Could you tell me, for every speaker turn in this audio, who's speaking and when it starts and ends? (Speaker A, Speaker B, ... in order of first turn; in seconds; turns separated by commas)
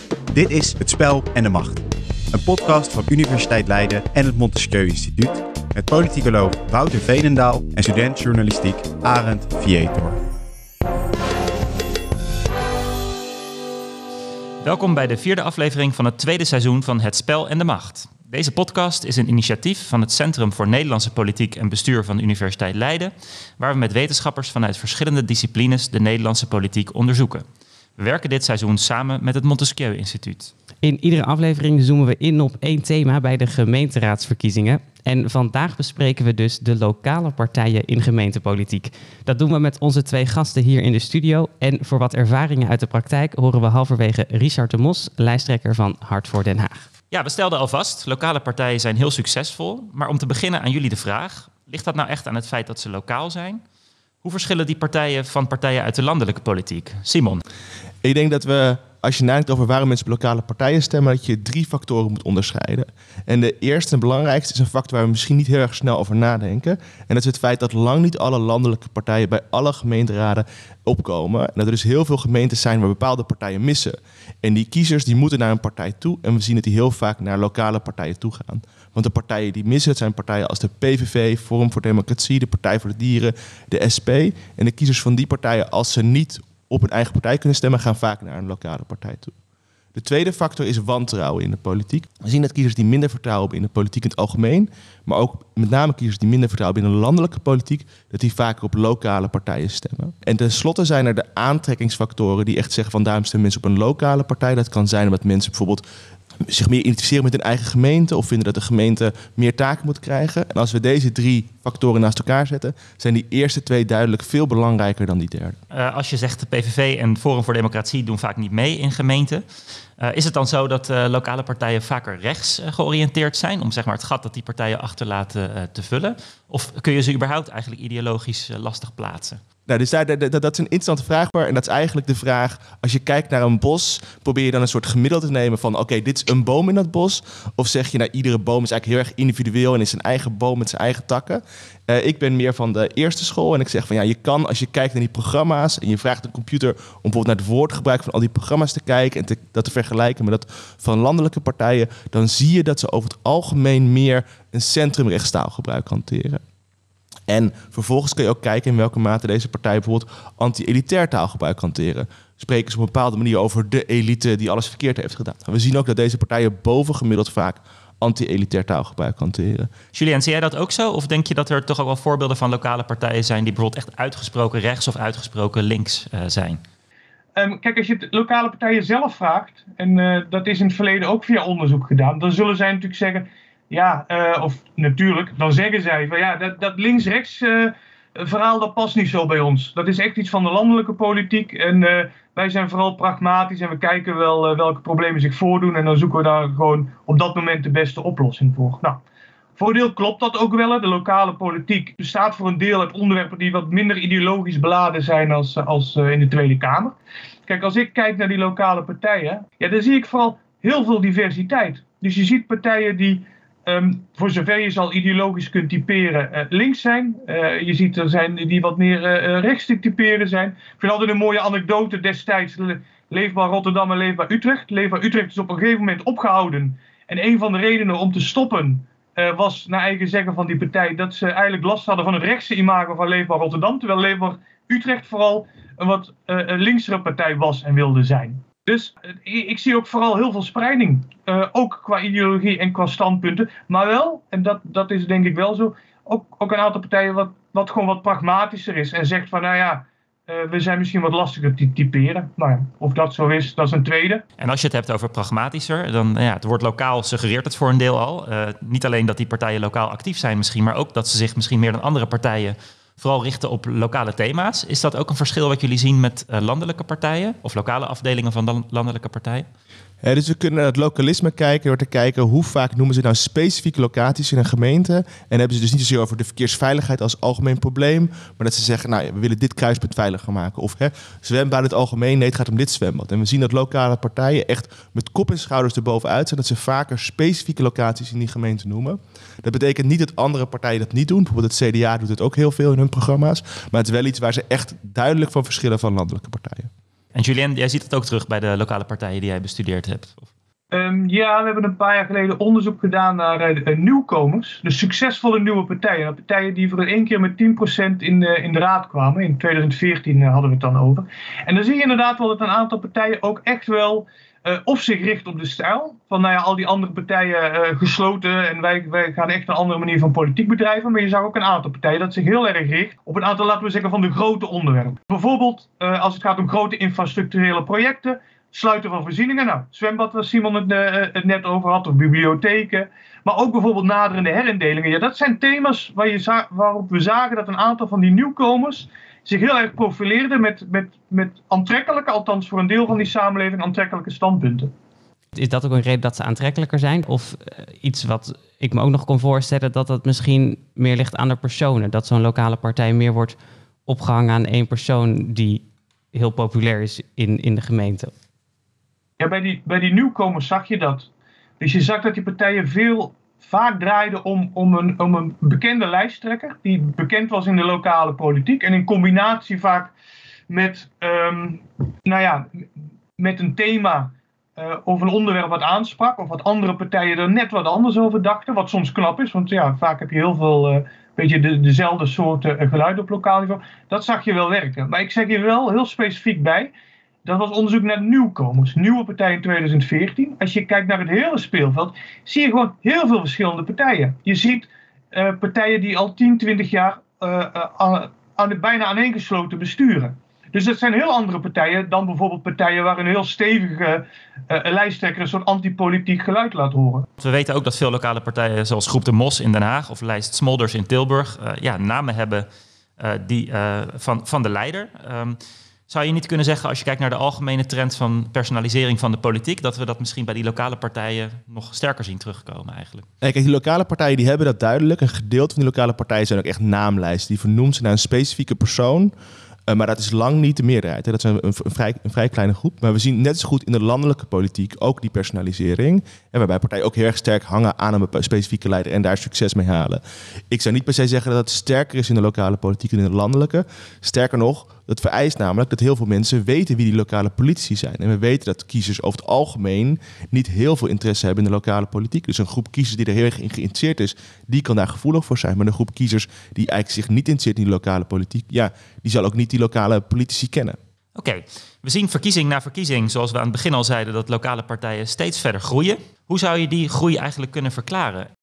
Speaker A: 0.3-10.2, Speaker B: 14.6-27.4, Speaker B: 28.0-30.5, Speaker C: 30.8-46.9, Speaker B: 47.1-53.6, Speaker B: 54.2-57.4, Speaker D: 58.0-89.3, Speaker D: 89.9-105.8, Speaker D: 106.4-115.6, Speaker B: 115.7-119.4, Speaker B: 120.0-129.4, Speaker D: 129.7-156.4, Speaker D: 157.3-169.7, Speaker B: 169.9-176.6, Speaker E: 177.3-199.0, Speaker E: 199.6-206.9, Speaker E: 207.5-254.2, Speaker B: 254.4-269.5, Speaker D: 270.0-296.7, Speaker B: 297.1-300.3, Speaker E: 300.7-344.7, Speaker C: 345.3-353.4, Speaker C: 353.9-358.1, Speaker E: 359.2-361.1, Speaker E: 361.6-369.9, Speaker E: 370.5-372.6, Speaker E: 373.2-386.7, Speaker E: 387.2-407.1, Speaker B: 407.2-412.4, Speaker B: 413.0-423.1, Speaker D: 423.2-429.1, Speaker D: 429.7-460.8, Speaker B: 461.1-468.3